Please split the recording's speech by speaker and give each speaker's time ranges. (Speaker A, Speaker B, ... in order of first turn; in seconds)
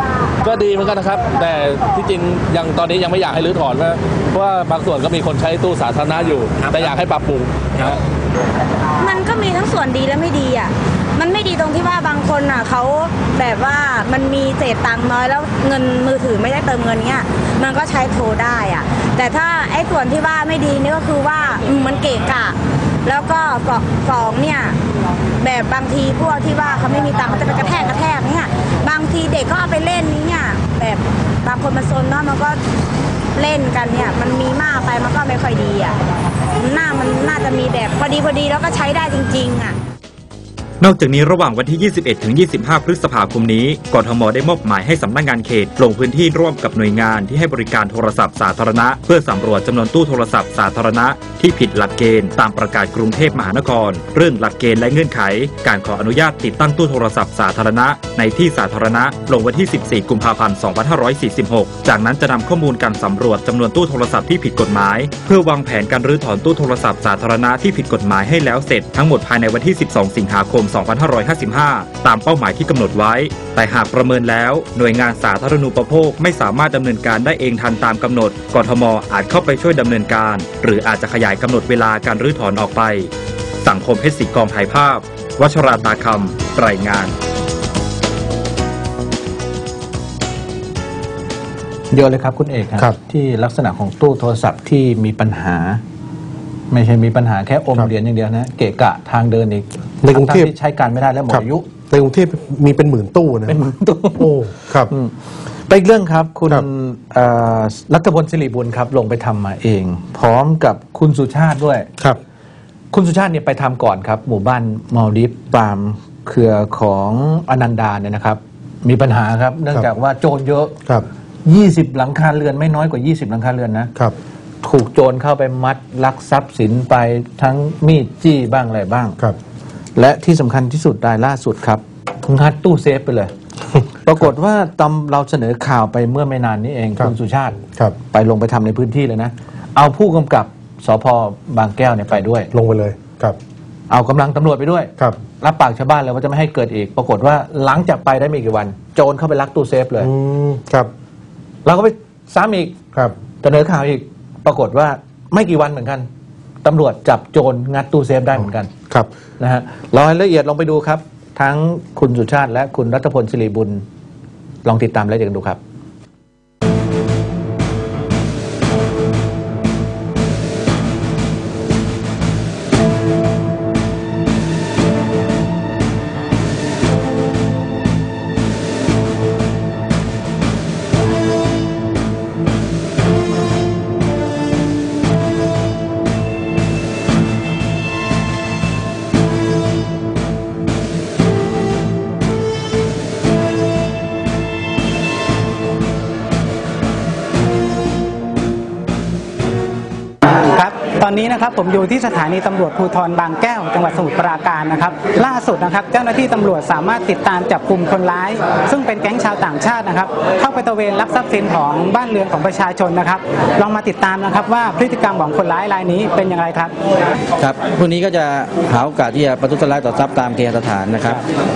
Speaker A: 0.4-8.0
Speaker B: 9.0-24.8, 25.4-32.6, 33.4-36.0, 36.5-39.8
Speaker C: 40.8-83.1, 83.6-87.1
Speaker D: 91.9-95.8, 96.7-101.7, 103.5-104.3, 104.9-105.1, 105.7-111.9, 112.9-120.8, 121.4-123.9, 124.6-129.2, 129.9-133.3, 134.0-142.5, 143.9-150.1, 151.6-152.8, 153.4-156.1, 156.6-158.7, 159.4-163.8, 164.6-165.6
Speaker E: 100.0-100.5, 101.3-103.5, 104.2-104.9, 142.5-143.3, 150.0-150.8
Speaker F: 200.2-216.7
Speaker G: 217.4-221.2